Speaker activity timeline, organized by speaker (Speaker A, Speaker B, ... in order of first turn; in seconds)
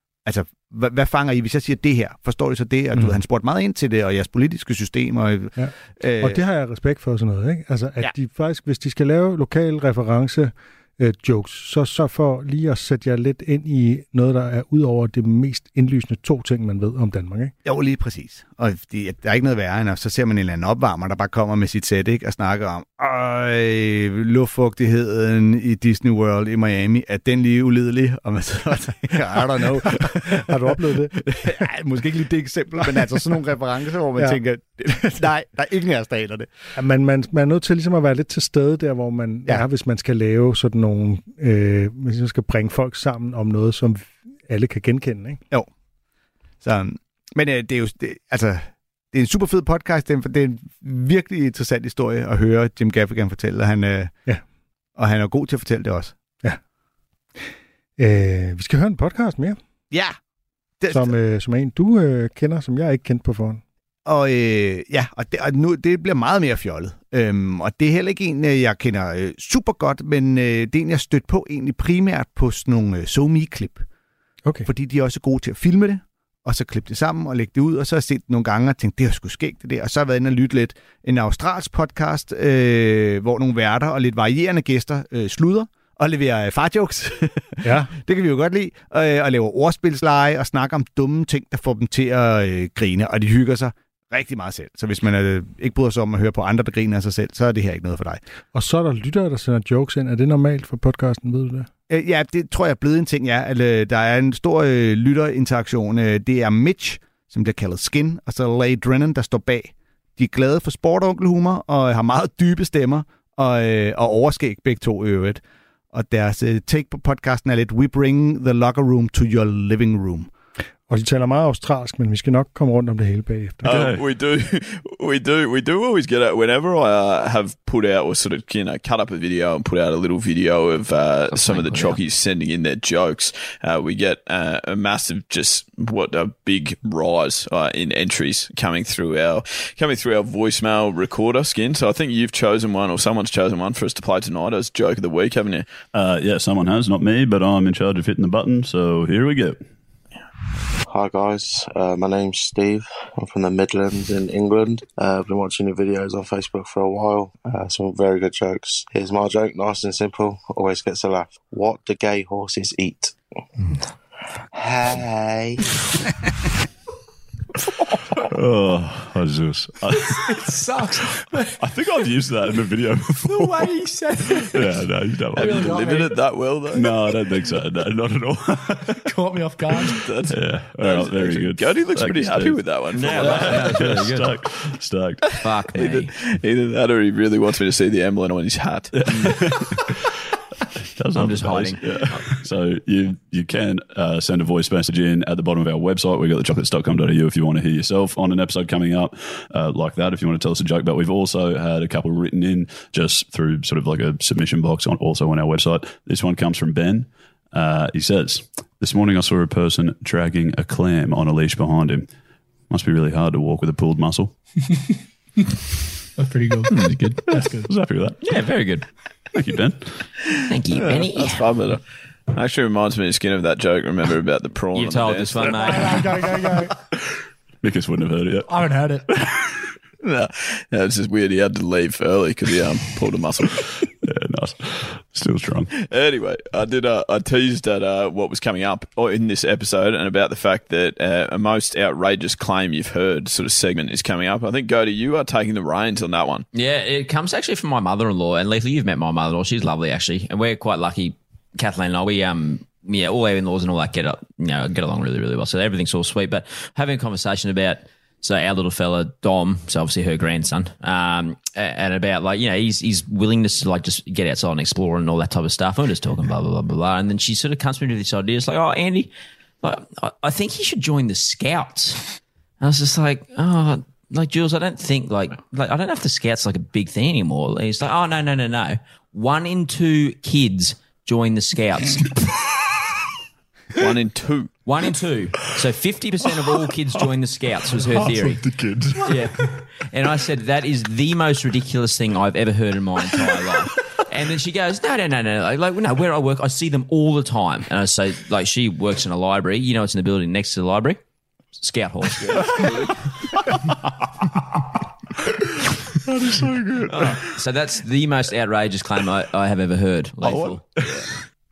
Speaker A: 0.2-6.4, 17.6-36.7, 46.6-54.1, 55.0-56.1, 59.9-60.1, 60.8-61.1, 64.0-73.8, 74.6-98.2, 101.9-115.4, 115.9-120.3
Speaker B: 5.6-17.5, 29.1-31.6, 32.8-33.3, 36.7-45.4, 58.0-59.6, 60.9-63.6, 87.6-87.9, 98.5-101.7, 120.9-123.7
Speaker C: 123.6-145.7, 175.3-177.4, 179.7-183.8, 185.2-189.6, 220.8-221.8, 222.3-226.0, 230.0-233.6, 235.7-246.4, 283.8-284.5, 302.3-302.8, 306.9-307.2, 310.2-311.1
Speaker D: 123.7-124.0, 145.9-149.6, 168.3-173.8, 174.3-175.9, 176.7-178.8, 179.8-185.2, 188.9-189.6, 191.0-212.1, 212.7-214.4, 217.3-218.2, 219.3-220.0, 227.6-228.9, 234.0-235.7, 287.7-289.6, 306.2-307.1
Speaker E: 131.3-132.0, 182.9-184.3, 185.4-186.1, 191.1-192.3, 216.7-217.1, 218.2-218.9, 220.5-221.4, 224.7-226.3, 246.5-269.1, 269.6-282.2, 284.6-288.5, 289.0-301.0, 301.6-302.9, 307.1-310.6
Speaker F: 150.8-163.2, 164.5-165.6
Speaker G: 170.4-171.4, 173.2-174.8, 175.5-176.0, 179.2-179.7, 225.9-226.7, 228.6-228.9